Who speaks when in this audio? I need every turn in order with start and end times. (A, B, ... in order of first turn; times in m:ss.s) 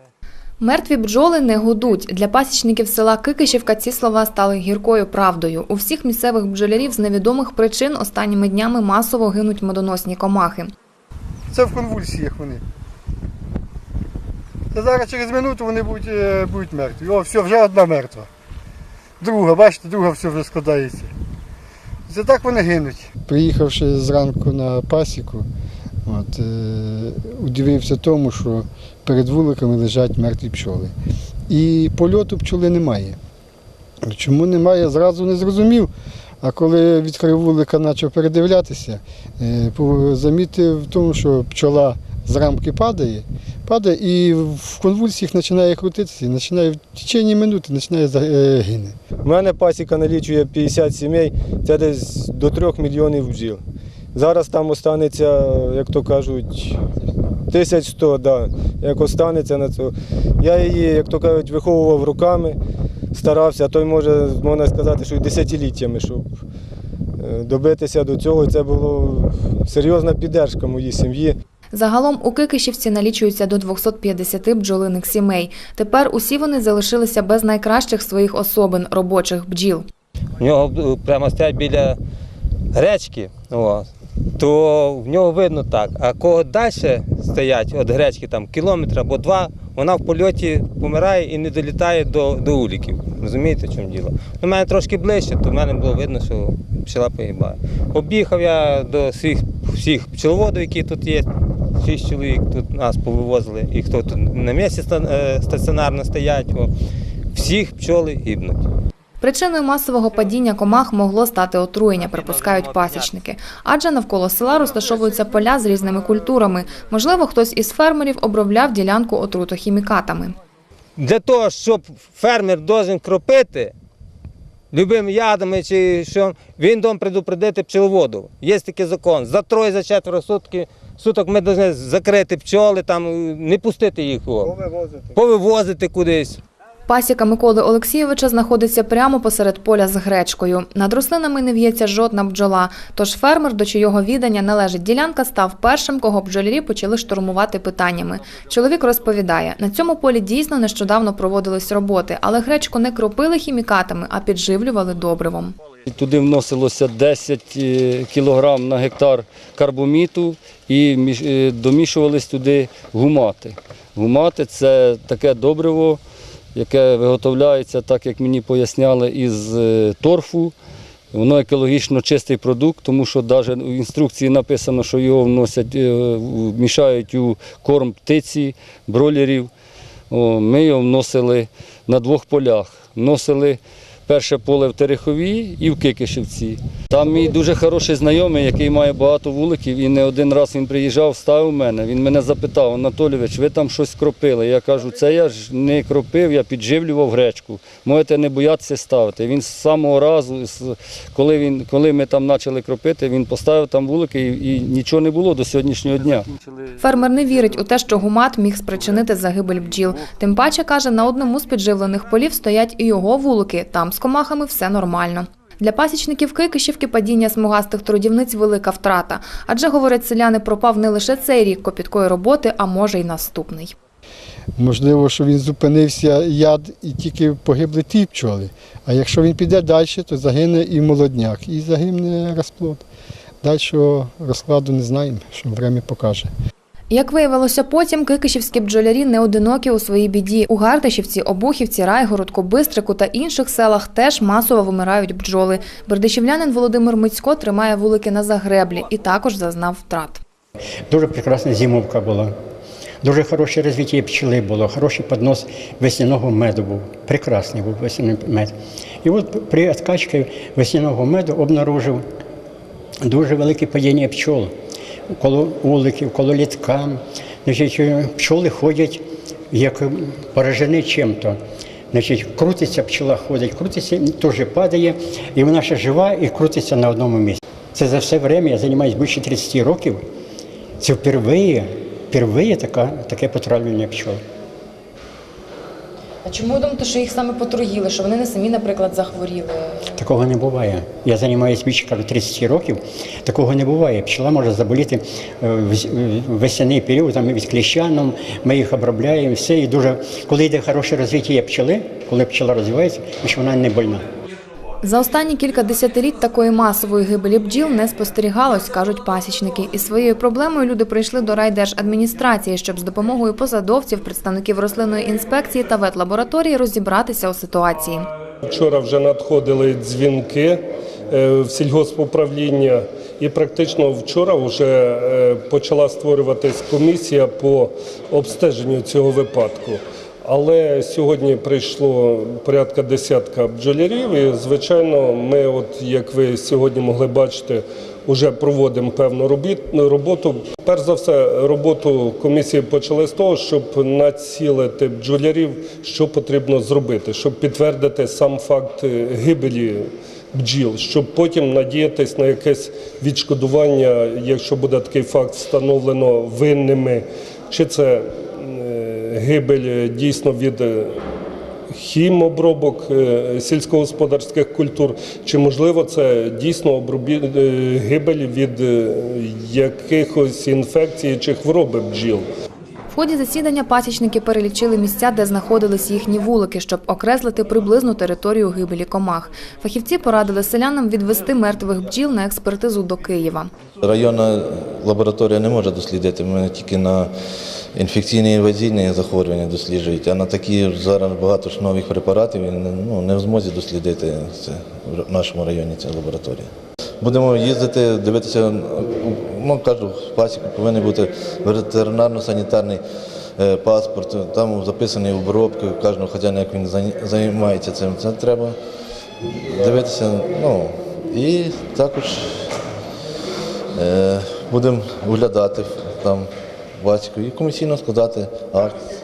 0:00.6-0:10.7 A
0:11.5-0:12.6 B
0:14.7-0:18.3 B
0:19.2-0:21.1 B
0:22.1-0:25.5 B
0:26.1-0:31.0 B
0:31.5-0:33.2 B
0:34.0-0:35.9 B
0:36.4-0:49.0 B
0:49.2-0:53.6 C
0:54.2-0:56.8 C
0:57.5-1:02.6 C
1:03.1-1:06.4 C
1:07.2-1:11.4 C
1:11.7-1:19.9 A
1:20.4-1:22.0 D
1:22.7-1:41.3 D
1:41.8-1:46.7 D
1:47.3-1:48.7 D
1:49.2-2:00.4 A
1:52.0-1:53.1 D
2:01.0-2:03.7 D
2:04.7-2:14.5 D
2:14.4-2:15.1 C
2:15.1-2:16.4 D
2:16.9-2:35.6 A
2:35.9-2:46.0 E
2:46.5-2:50.6 E
2:51.1-2:59.5 E
3:00.1-3:26.4 E
3:26.8-3:43.7 A
3:44.6-3:52.8 B
3:53.4-3:56.3 B
3:56.9-4:10.2 A
4:10.9-4:12.4 F
4:13.0-4:22.1 F
4:23.0-4:24.6 F
4:25.1-4:31.4 F
4:31.9-4:40.0 F
4:40.8-4:44.2 F
4:46.2-4:49.9 A
4:49.9-5:04.1 F
5:04.8-5:18.1 A
5:18.4-6:01.0 G
6:01.7-6:12.3 G
6:12.9-6:23.5 A
6:23.8-6:27.1 H
6:27.8-6:42.8 H
6:43.4-6:48.6 H
6:49.5-6:52.5 H
6:53.8-6:56.3 H
6:56.8-6:58.9 H